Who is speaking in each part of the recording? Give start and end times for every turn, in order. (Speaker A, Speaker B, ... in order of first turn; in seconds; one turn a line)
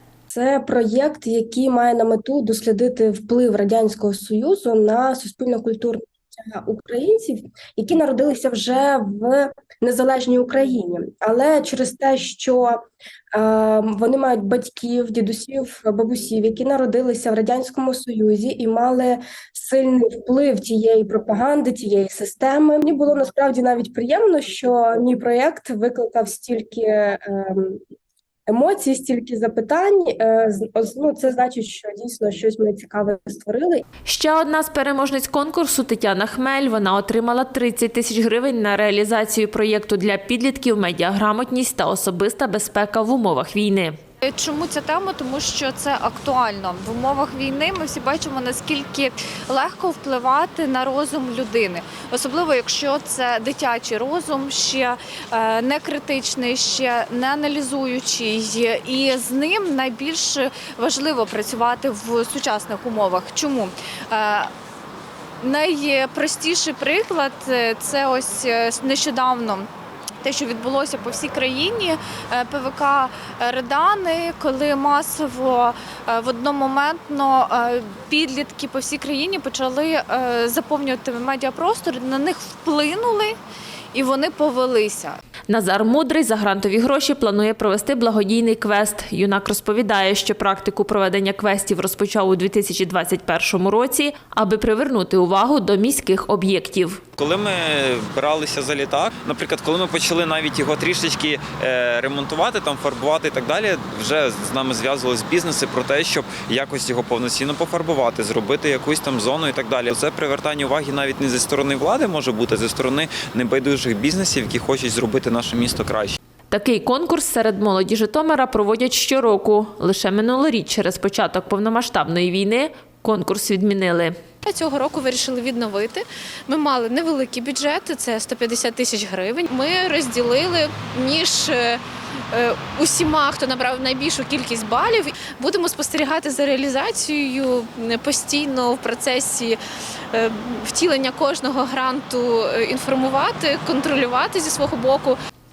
Speaker A: 0.3-12.8
Speaker A: 13.3-27.8
Speaker A: 28.5-33.8
Speaker B: 34.0-44.0
Speaker C: 44.2-64.5
Speaker C: 65.4-69.7
Speaker C: 70.2-83.3
Speaker C: 83.9-85.2
Speaker B: 85.5-97.0
Speaker D: 97.2-116.2
Speaker B: 116.5-124.2
Speaker E: 124.4-131.8
Speaker E: 132.3-139.6
Speaker E: 140.1-145.1